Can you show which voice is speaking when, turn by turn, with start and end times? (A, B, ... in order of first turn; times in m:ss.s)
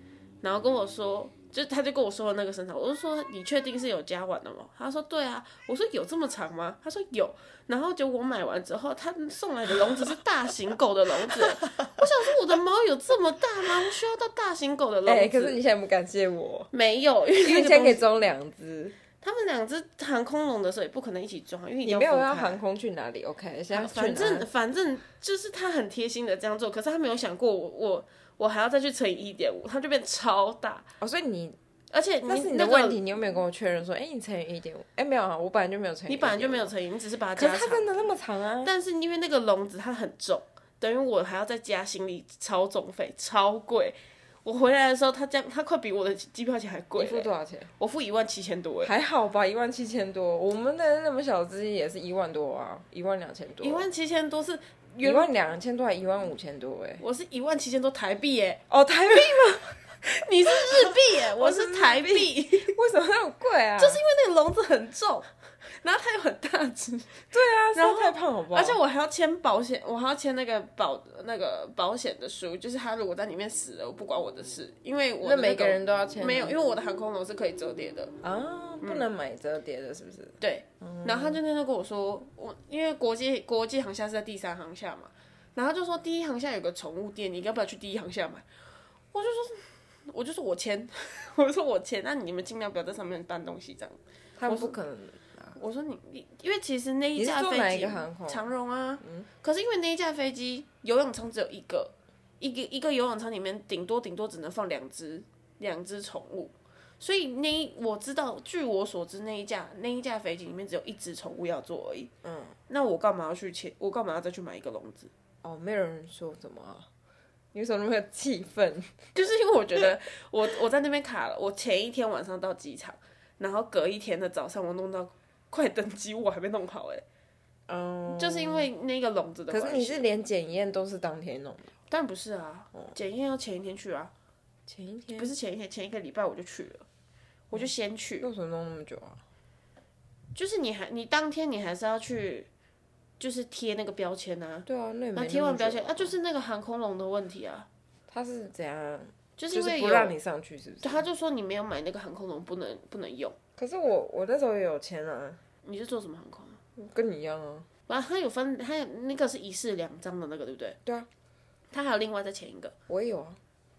0:00.4-0:15.6 A
0:15.1-0:16.7 B
0:16.7-0:18.1 A
0:17.4-0:19.0 B
0:19.2-0:22.6 A
0:21.8-0:24.5 B
0:23.7-0:30.9 A
0:31.0-0:31.6 B
0:31.9-0:33.0 A
0:32.2-0:36.7 B
0:36.1-0:38.1 A
0:37.4-0:38.7 B
0:38.6-0:48.9 A
0:47.0-0:47.7 B
0:48.8-0:53.9 B
0:53.6-0:55.3 A
0:55.0-0:57.0 B
0:57.0-1:02.8 A
0:58.7-1:04.0 B
1:03.8-1:18.1 A
1:07.3-1:08.8 B
1:15.2-1:16.6 B
1:18.2-1:21.4 B
1:20.4-1:28.5 A
1:29.1-1:34.8 A
1:34.4-1:35.6 B
1:35.6-1:52.1 A
1:37.2-1:38.5 B
1:52.2-1:52.6 B
1:52.7-1:55.1 A
1:55.4-1:56.9 B
1:57.5-1:59.1 B
1:59.2-2:07.0 A
2:07.7-2:08.7 B
2:08.2-2:10.0 A
2:09.5-2:11.8 B
2:11.9-2:14.1 A
2:14.7-2:15.3 B
2:15.2-2:16.9 A
2:17.5-2:18.3 A
2:17.5-2:19.2 B
2:20.4-2:22.5 A
2:23.2-2:27.7 A
2:24.7-2:26.2 B
2:28.1-2:31.0 B
2:29.4-2:30.2 A
2:30.8-2:33.4 A
2:33.6-2:35.4 B
2:35.6-2:36.6 A
2:36.8-2:37.7 B
2:37.9-2:40.8 A
2:41.7-2:42.7 A
2:42.9-2:43.4 B